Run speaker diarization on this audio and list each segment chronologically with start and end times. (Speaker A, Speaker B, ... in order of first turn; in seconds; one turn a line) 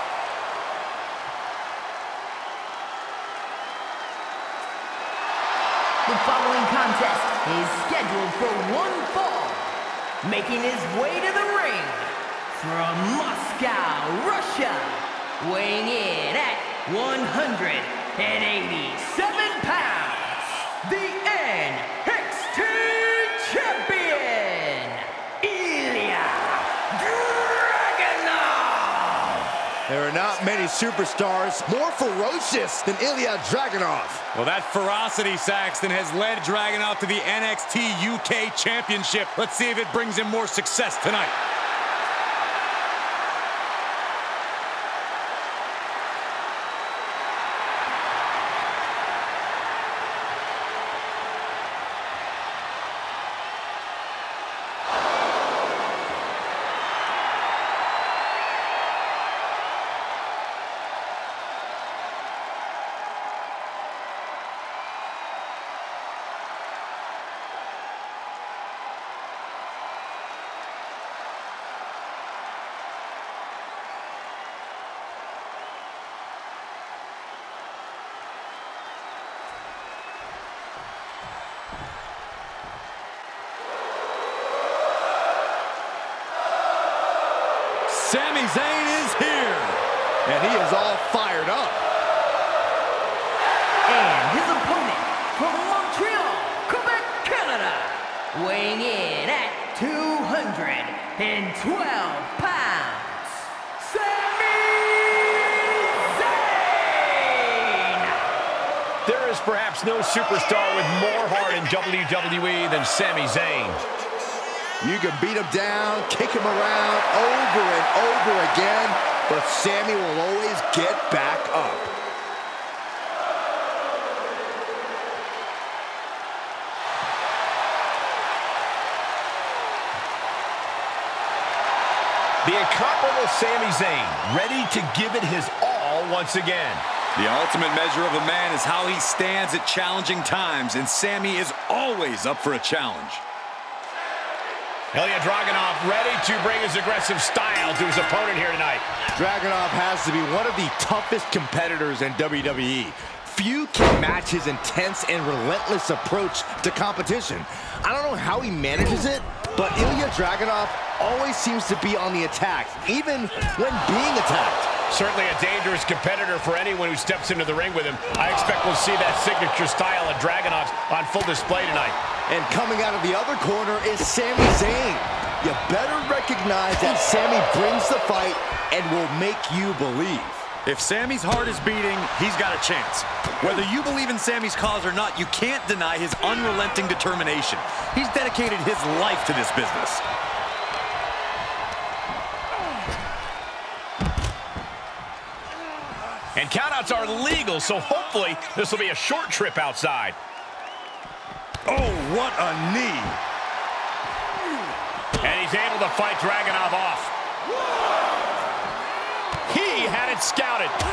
Speaker A: 6.0-29.5
Speaker B: 29.9-34.2
Speaker C: 34.3-41.4
Speaker C: 87.9-89.8
Speaker B: 90.2-91.8
Speaker A: 93.9-108.2
Speaker D: 109.0-113.8
Speaker B: 114.8-121.9
Speaker D: 132.4-136.8
Speaker C: 137.2-143.2
Speaker D: 144.9-148.9
Speaker B: 149.2-164.7
Speaker D: 164.9-172.0
Speaker B: 172.3-180.4
Speaker C: 180.7-190.0
Speaker D: 196.3-200.2
Speaker C: 201.7-203.2
Speaker D: 205.2-207.1
Speaker D: 209.5-210.8